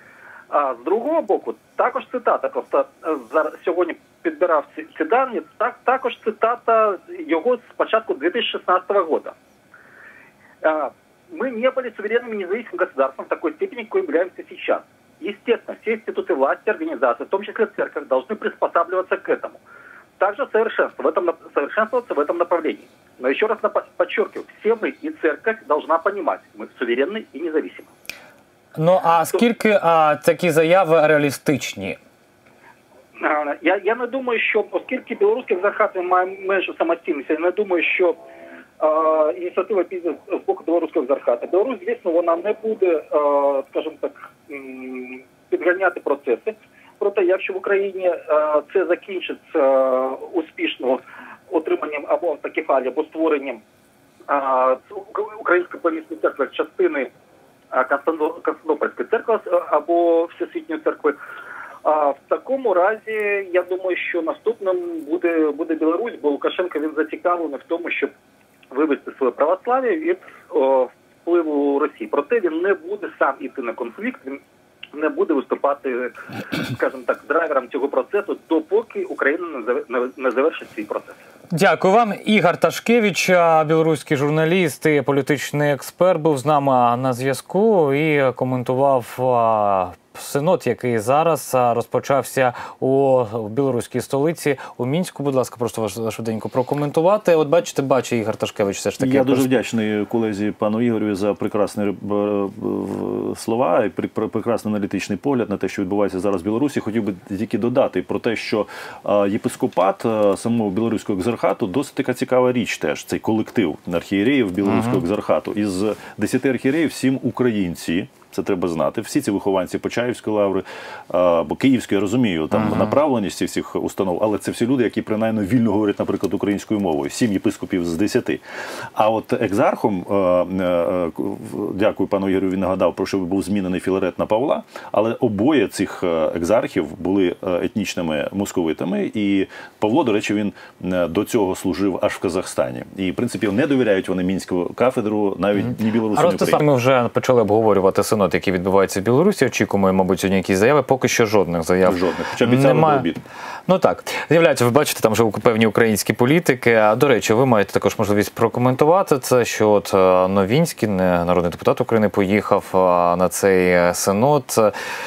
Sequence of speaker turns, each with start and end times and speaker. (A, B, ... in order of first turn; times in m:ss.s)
0:00.5-0:09.4 A
0:10.6-0:19.6 A
0:20.2-0:27.9 A
0:28.8-0:32.0 B
0:33.2-0:38.2 A
0:38.8-0:53.6 A
0:54.3-0:57.1 A
0:57.7-1:01.2 A
1:01.8-1:08.1 A
1:08.7-1:14.4 A
1:15.0-1:16.1 A
1:16.6-1:21.2 A
1:21.5-1:39.5 B
1:39.0-2:08.4 C
1:54.7-1:55.0 B
2:02.5-2:02.9 B
2:09.0-2:26.6 C
2:26.2-2:33.1 B
2:31.8-2:33.2 C
2:33.7-2:44.7 B